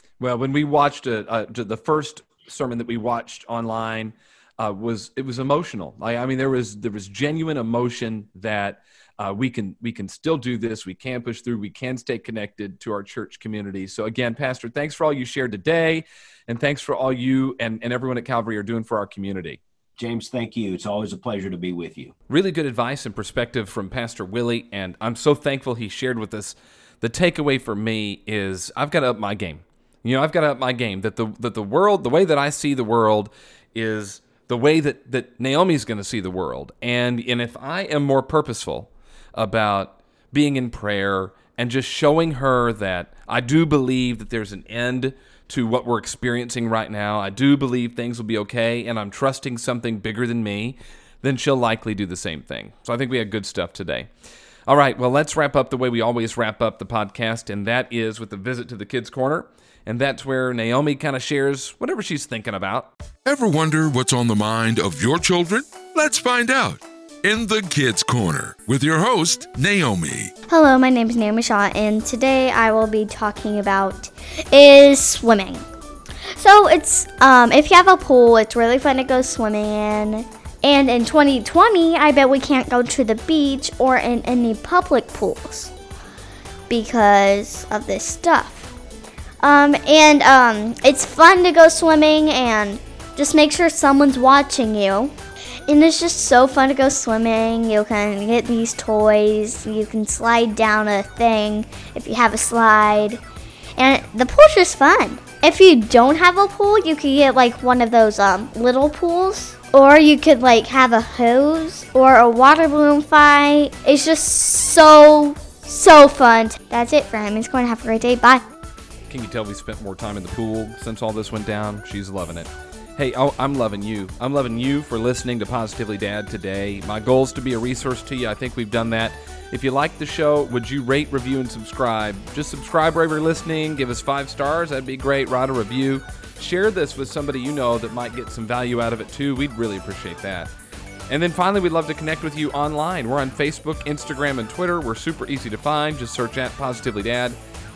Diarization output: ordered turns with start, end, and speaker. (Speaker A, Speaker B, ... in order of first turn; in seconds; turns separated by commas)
Speaker A: 0.2-19.6, Speaker B: 20.0-22.1, Speaker A: 22.3-54.1, Speaker A: 54.7-62.9, Speaker C: 63.2-70.3, Speaker D: 70.5-75.6, Speaker D: 76.3-85.7, Speaker D: 86.7-88.7, Speaker D: 89.4-95.1, Speaker D: 95.7-103.2, Speaker D: 103.8-118.4, Speaker A: 119.1-140.5, Speaker A: 141.1-147.3